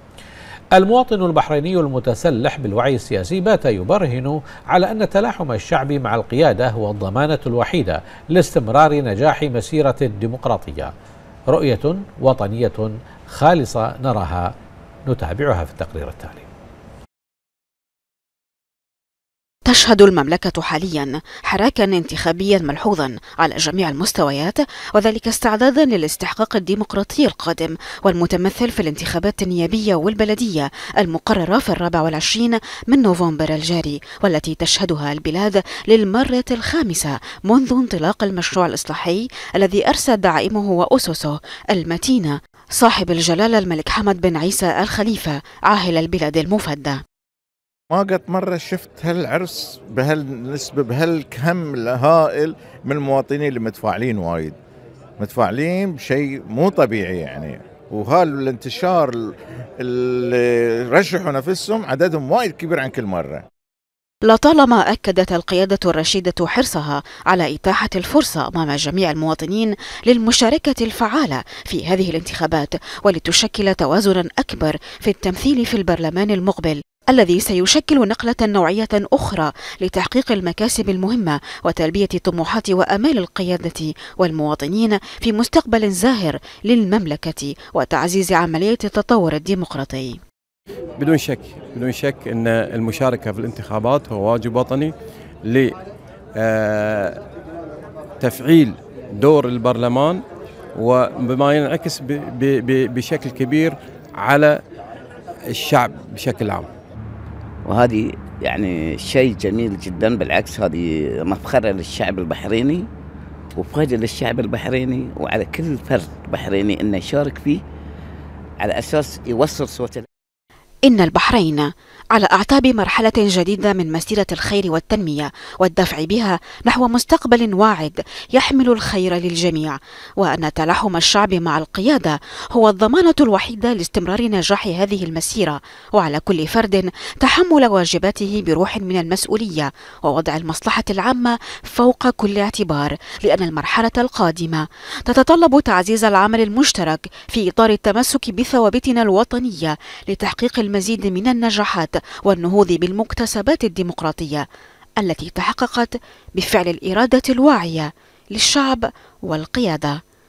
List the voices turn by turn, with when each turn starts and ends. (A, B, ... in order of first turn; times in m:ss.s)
0:00.7-0:10.9 A
0:11.5-0:14.5 A
0:15.1-0:16.5 A
0:19.7-0:47.0 B
0:47.9-0:54.6 C
0:55.2-1:03.4 C
1:04.2-1:30.2 B
1:31.0-1:35.8 D
1:36.4-1:37.2 D
1:38.2-1:40.2 D
1:40.7-1:44.6 D
1:45.5-1:46.7 D
1:47.6-1:52.9 E
1:53.6-1:57.6 E
1:58.6-2:00.0 E
2:00.8-2:34.4 B
2:35.0-2:40.0 B